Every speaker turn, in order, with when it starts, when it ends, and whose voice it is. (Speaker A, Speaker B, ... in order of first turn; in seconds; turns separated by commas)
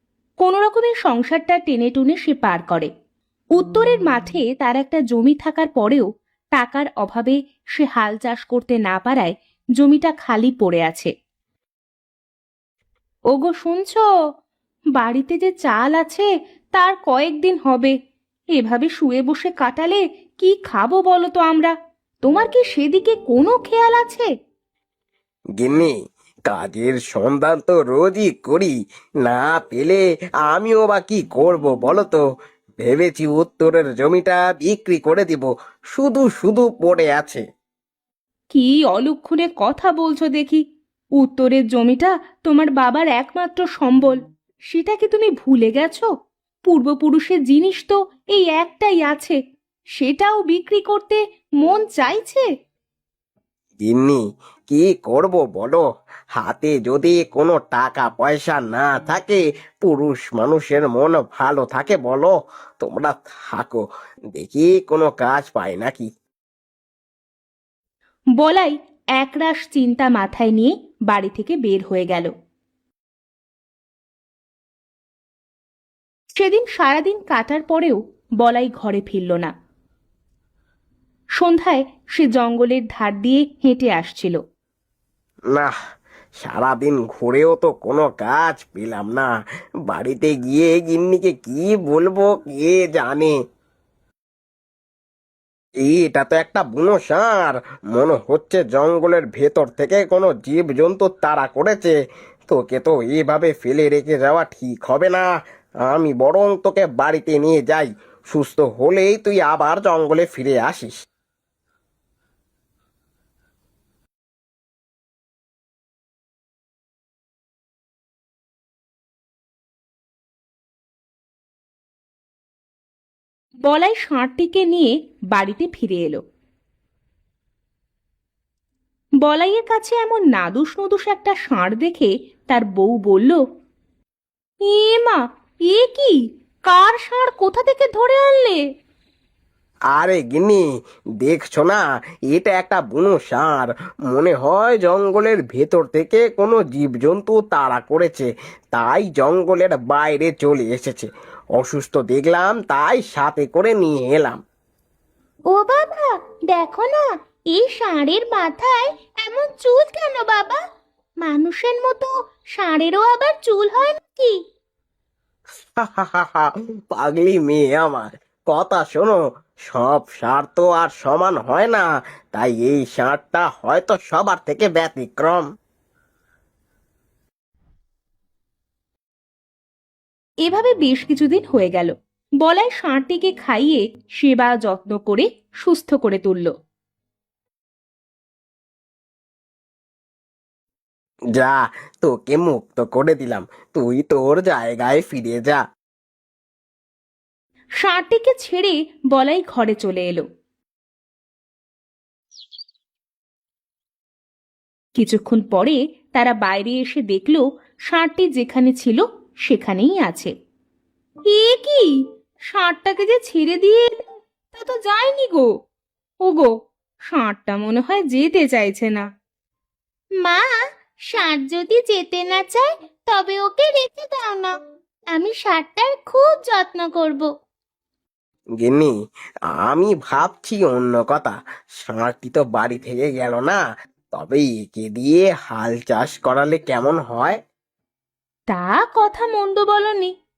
Speaker A: 0.4-2.9, Speaker A: 3.5-11.1, Speaker A: 13.3-14.0, Speaker A: 15.0-17.9, Speaker A: 18.6-24.3, Speaker B: 25.6-25.9, Speaker B: 26.5-28.7, Speaker B: 29.2-32.2, Speaker B: 32.8-37.4, Speaker A: 38.5-40.6, Speaker A: 41.2-44.2, Speaker A: 44.7-46.1, Speaker A: 46.7-49.4, Speaker A: 50.0-52.5, Speaker B: 53.8-55.8, Speaker B: 56.4-63.8, Speaker B: 64.3-66.1, Speaker A: 68.4-72.3, Speaker A: 76.4-79.5, Speaker A: 81.4-84.4, Speaker B: 86.4-89.3, Speaker B: 89.9-93.3, Speaker B: 95.8-101.9, Speaker B: 102.5-105.3, Speaker B: 105.9-110.9, Speaker A: 123.6-126.2, Speaker A: 129.2-133.4, Speaker A: 134.6-136.2, Speaker A: 136.7-138.6, Speaker B: 139.9-140.6, Speaker B: 141.2-154.4, Speaker C: 159.3-160.6, Speaker A: 161.3-161.9, Speaker A: 162.6-163.2, Speaker C: 163.5-164.2, Speaker B: 165.8-175.4, Speaker A: 180.4-186.5, Speaker B: 191.4-195.6, Speaker A: 197.8-200.3, Speaker A: 205.0-210.3, Speaker A: 211.3-211.9, Speaker A: 212.5-215.5, Speaker A: 216.3-216.5, Speaker A: 217.1-219.1, Speaker C: 221.1-224.5, Speaker C: 225.2-227.2, Speaker B: 228.6-228.9, Speaker B: 229.6-233.6, Speaker B: 234.1-237.4, Speaker A: 238.5-240.1